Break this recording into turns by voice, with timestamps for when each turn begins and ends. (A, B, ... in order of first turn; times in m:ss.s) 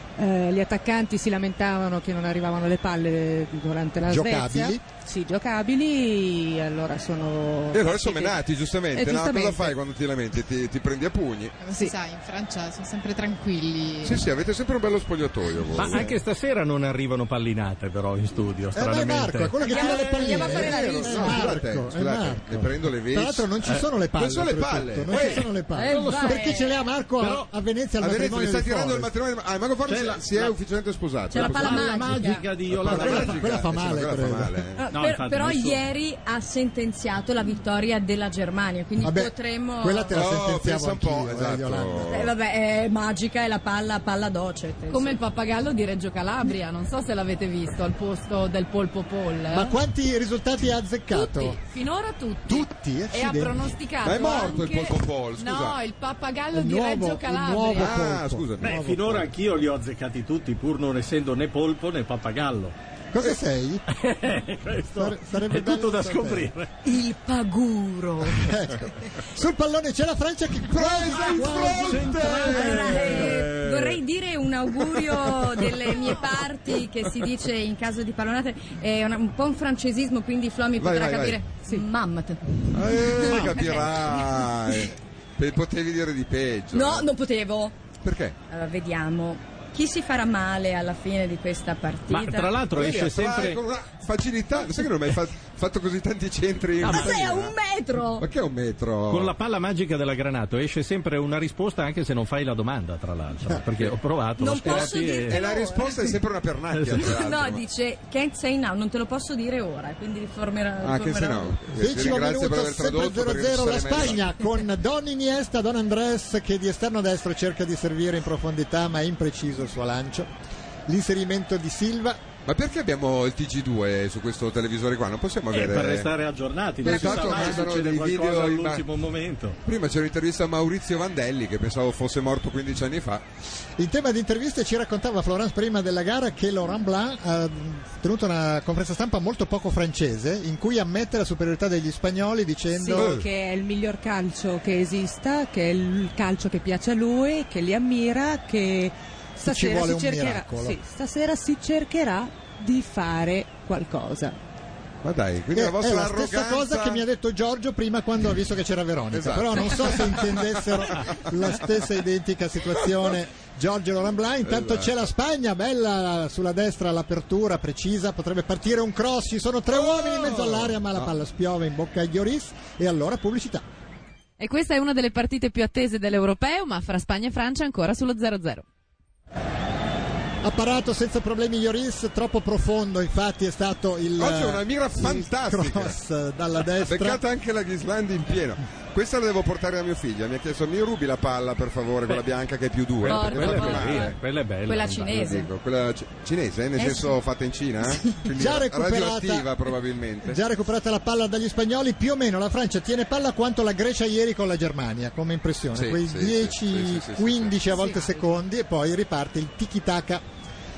0:00.2-0:08.4 A
0:04.0-0:04.8 B
0:07.7-0:11.6 C
0:08.9-0:09.8 A
0:11.6-0:14.2 D
0:14.0-0:16.2 C
0:15.8-0:19.8 E
0:18.7-0:29.1 B
0:19.6-0:21.6 F
0:19.7-0:23.5 C
0:24.2-0:25.5 C
0:25.1-0:26.5 E
0:25.7-0:26.8 F
0:27.2-0:27.5 E
0:28.0-0:34.8 C
0:29.8-0:30.6 E
0:31.3-0:32.6 F
0:31.3-0:33.4 E
0:32.8-0:34.6 B
0:34.8-0:40.1 F
0:34.9-0:35.8 E
0:39.0-0:42.3 B
0:40.1-0:42.3 C
0:42.1-0:45.2 F
0:44.9-0:49.8 G
0:49.5-0:51.6 B
0:51.1-0:58.1 G
0:52.5-0:53.7 B
0:54.0-0:55.8 C
0:56.5-0:59.2 B
0:57.7-0:59.2 C
0:58.6-1:02.8 E
1:03.1-1:03.8 B
1:03.9-1:06.7 E
1:05.0-1:06.5 B
1:06.8-1:08.5 F
1:08.3-1:12.6 B
1:10.7-1:13.0 C
1:10.8-1:24.9 F
1:11.7-1:14.0 E
1:20.8-1:21.4 C
1:22.7-1:27.1 C
1:26.7-1:27.8 F
1:28.0-1:28.4 C
1:28.5-1:32.6 F
1:32.1-1:33.6 E
1:32.7-1:37.5 C
1:36.8-1:37.2 E
1:36.8-1:38.2 F
1:38.2-1:39.3 C
1:39.1-1:45.4 E
1:44.4-1:46.2 F
1:44.6-1:47.6 C
1:46.8-1:47.1 E
1:47.0-1:51.6 F
1:50.8-1:54.3 C
1:51.7-2:00.3 B
2:00.9-2:02.2 B
2:02.4-2:06.1 C
2:05.5-2:09.6 E
2:06.8-2:08.8 C
2:06.9-2:07.7 F
2:09.6-2:13.2 C
2:13.8-2:23.2 B
2:22.7-2:34.4 A
2:23.0-2:23.2 C
2:29.4-2:30.8 B
2:35.0-2:37.0 C
2:35.5-2:53.6 B
2:39.1-2:41.6 C
2:44.5-2:44.9 C
2:49.7-2:51.1 C
2:54.4-2:58.6 G
3:00.4-3:07.2 B
3:04.2-3:06.0 C
3:06.8-3:14.2 C
3:13.0-3:15.2 E
3:13.0-3:15.5 F
3:15.1-3:20.4 C
3:16.8-3:17.2 F
3:18.0-3:18.2 F
3:18.3-3:19.5 B
3:20.2-3:30.2 B
3:25.7-3:27.8 C